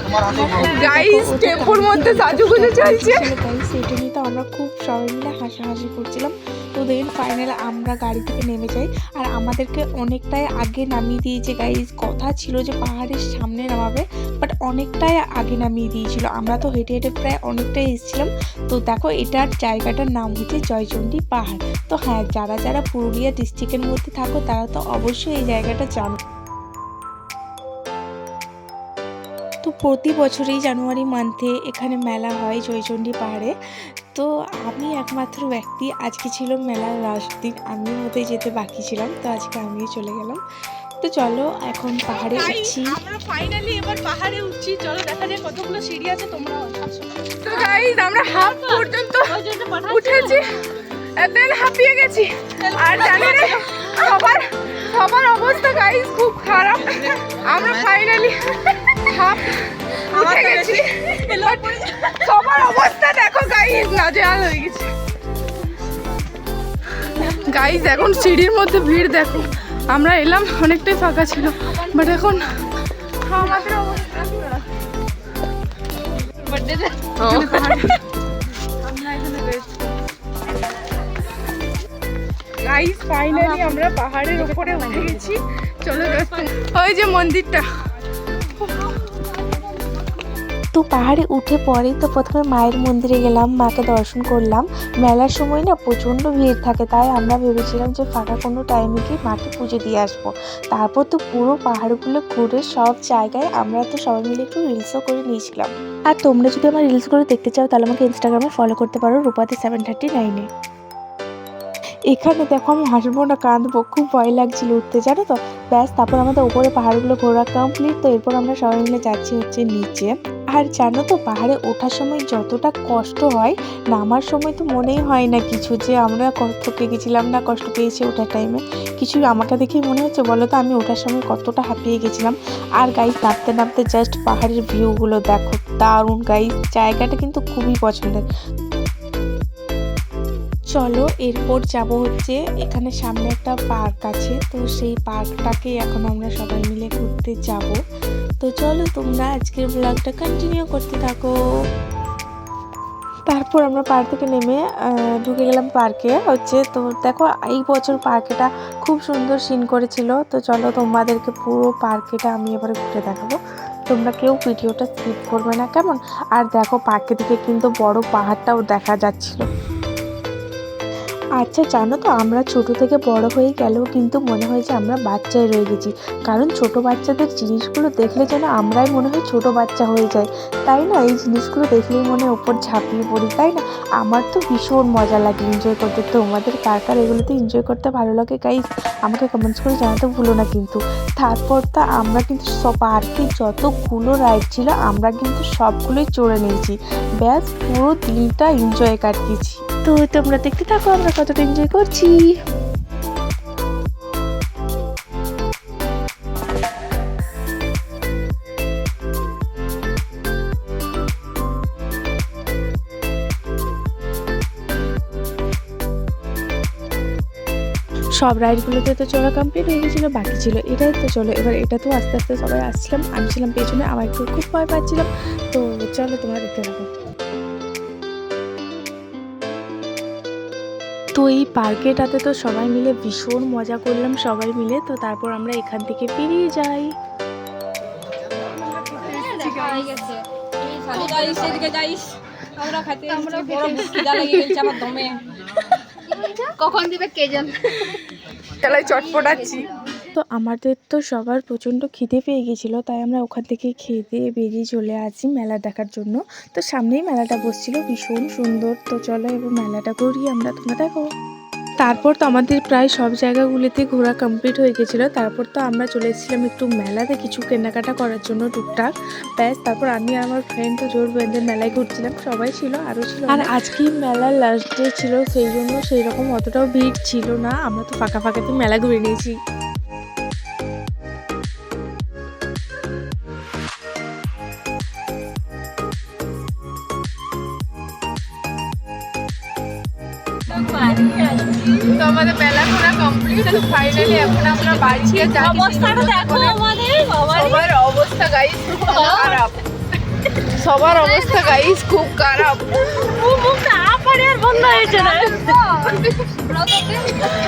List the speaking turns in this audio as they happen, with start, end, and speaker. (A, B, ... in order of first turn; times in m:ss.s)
0:00.2-0:26.2 A
0:00.6-0:03.3 B
0:29.6-0:33.5 A
0:34.1-0:40.4 A
0:41.0-0:43.0 A
0:42.2-0:46.7 B
0:47.4-0:50.5 B
0:47.5-0:50.4 C
0:51.2-1:04.9 B
0:52.6-0:54.1 C
1:00.1-1:02.1 C
1:07.1-1:14.6 B
1:16.5-1:17.8 C
1:17.2-1:18.0 B
1:18.9-1:19.8 B
1:22.6-1:27.7 B
1:30.7-1:50.5 A
1:52.1-2:18.2 A
2:20.8-2:27.8 A
2:28.4-2:31.3 A
2:33.3-2:34.6 A
2:35.2-2:43.4 A
2:43.9-2:49.5 A
2:51.4-3:22.3 A
3:38.2-3:46.9 A
3:51.2-3:56.9 A
3:58.9-4:05.2 C
3:59.6-3:59.9 D
4:03.7-4:04.7 B
4:06.2-4:07.6 D
4:08.6-4:09.7 B
4:10.1-4:21.1 A
4:21.8-4:28.9 A
4:29.4-4:39.4 A
4:50.5-4:51.9 C
4:51.9-4:56.6 B
4:53.4-4:57.7 C
4:57.3-4:59.6 B
4:58.9-4:59.4 C
5:00.4-5:03.2 B
5:02.9-5:05.7 C
5:05.4-5:06.3 B
5:05.8-5:07.2 D